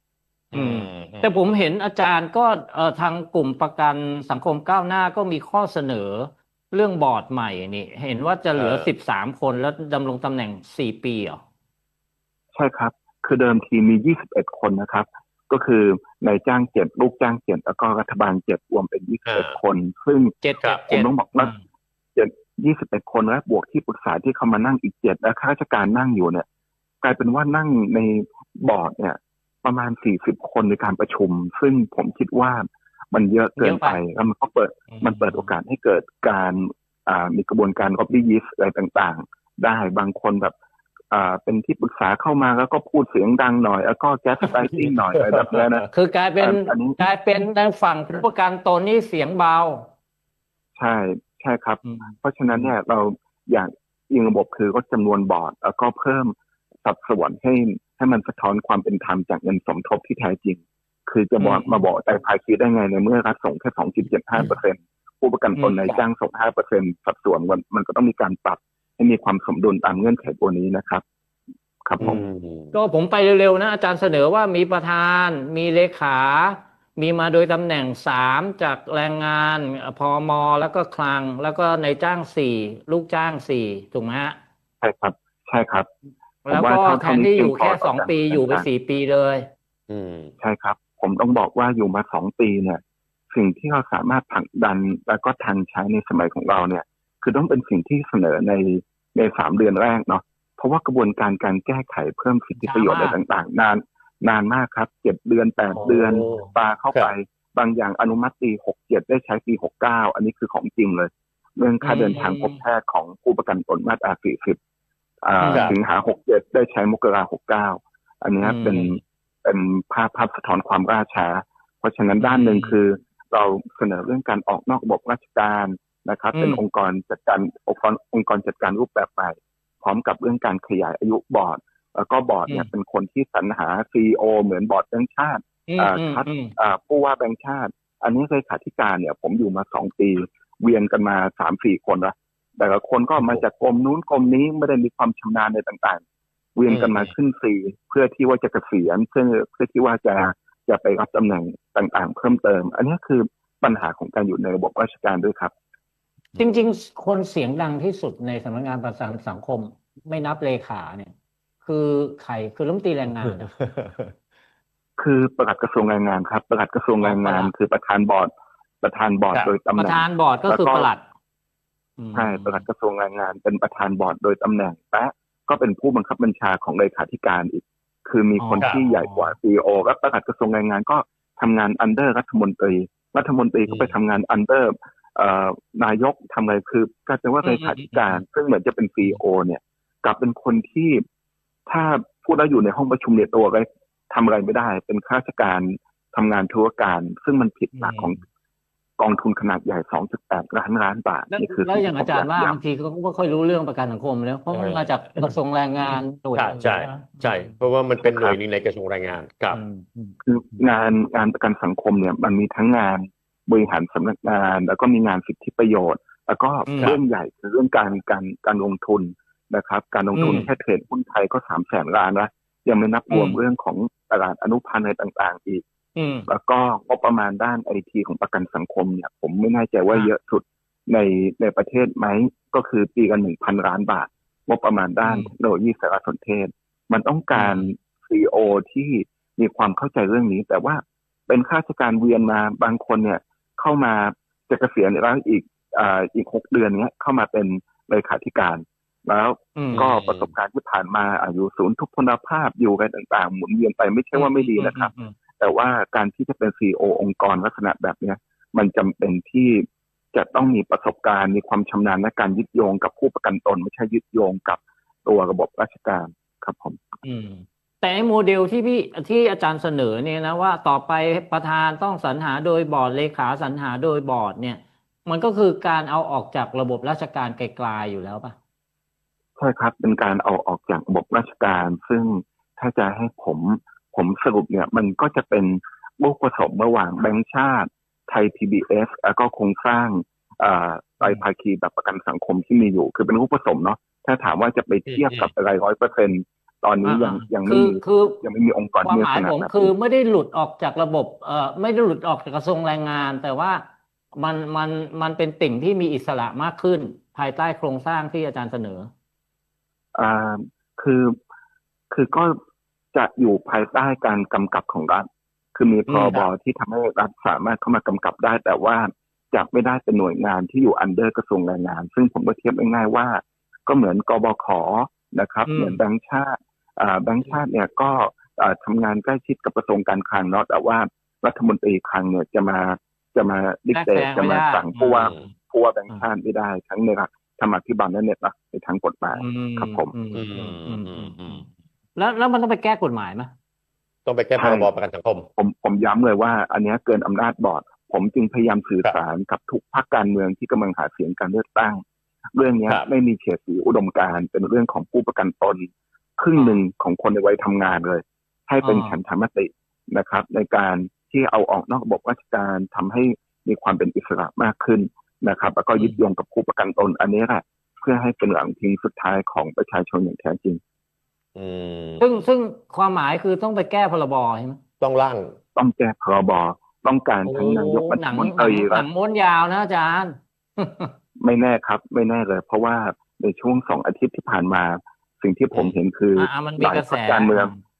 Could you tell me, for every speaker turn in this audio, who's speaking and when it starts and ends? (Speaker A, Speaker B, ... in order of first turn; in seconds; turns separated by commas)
Speaker A: 0.5-1.3, Speaker B: 0.5-11.4, Speaker A: 8.6-8.9, Speaker C: 12.5-20.3, Speaker A: 19.3-19.6, Speaker B: 20.4-21.6, Speaker C: 20.9-21.5, Speaker C: 22.1-26.4, Speaker C: 27.0-40.5, Speaker B: 33.6-34.0, Speaker B: 34.9-35.5, Speaker C: 41.1-45.9, Speaker A: 44.4-45.9, Speaker B: 45.9-49.9, Speaker C: 46.4-47.0, Speaker C: 50.8-56.3, Speaker B: 51.8-52.7, Speaker C: 56.8-71.0, Speaker B: 61.4-61.8, Speaker B: 65.6-66.0, Speaker C: 71.9-72.2, Speaker A: 72.0-72.7, Speaker B: 72.7-84.4, Speaker C: 84.8-85.9, Speaker B: 86.5-89.5, Speaker C: 86.5-88.7, Speaker A: 89.9-90.3, Speaker C: 90.4-92.8, Speaker C: 93.3-114.6, Speaker B: 102.6-103.2, Speaker A: 105.8-107.1, Speaker B: 111.8-112.6, Speaker C: 115.2-146.0, Speaker B: 115.4-115.8, Speaker A: 115.4-115.7, Speaker B: 118.4-119.0, Speaker B: 122.2-122.8, Speaker B: 126.3-126.6, Speaker B: 135.7-136.5, Speaker C: 146.6-155.5, Speaker A: 146.7-147.1, Speaker B: 156.4-161.1, Speaker B: 161.6-163.5, Speaker A: 163.3-164.1, Speaker C: 165.0-168.3, Speaker B: 167.0-167.5, Speaker C: 168.8-170.9, Speaker B: 169.8-171.0, Speaker B: 172.0-172.6, Speaker C: 172.2-191.0, Speaker B: 178.4-179.3, Speaker A: 183.7-183.9, Speaker B: 187.4-188.2, Speaker C: 191.7-198.2, Speaker B: 197.8-198.2, Speaker C: 199.0-202.6, Speaker B: 201.3-207.6, Speaker A: 204.5-205.3, Speaker A: 206.4-209.6, Speaker B: 209.5-210.6, Speaker C: 210.2-225.6, Speaker B: 216.7-216.9, Speaker B: 220.2-220.4, Speaker A: 220.2-220.5, Speaker B: 223.1-223.4, Speaker B: 225.9-226.3, Speaker C: 226.3-266.8, Speaker B: 235.0-235.3, Speaker B: 237.3-237.7, Speaker B: 249.6-249.8, Speaker A: 249.7-250.3, Speaker B: 254.1-255.2, Speaker B: 267.0-278.4, Speaker C: 279.4-299.7, Speaker A: 294.9-295.3, Speaker B: 296.8-298.2, Speaker B: 298.8-303.6, Speaker B: 304.1-308.9, Speaker C: 309.9-311.2, Speaker C: 311.9-312.4, Speaker C: 312.9-339.9, Speaker B: 315.9-316.2, Speaker B: 325.4-325.8, Speaker B: 333.7-335.3, Speaker A: 335.0-335.2, Speaker B: 339.1-343.3, Speaker A: 340.1-341.4, Speaker A: 344.1-345.3, Speaker C: 344.4-344.7, Speaker C: 345.4-351.8, Speaker C: 352.3-370.6, Speaker B: 356.4-356.6, Speaker B: 358.6-358.9, Speaker A: 371.3-372.0, Speaker B: 372.0-374.6, Speaker A: 374.8-375.3, Speaker C: 375.6-378.9, Speaker B: 377.3-380.9, Speaker C: 381.2-387.5, Speaker B: 386.2-387.6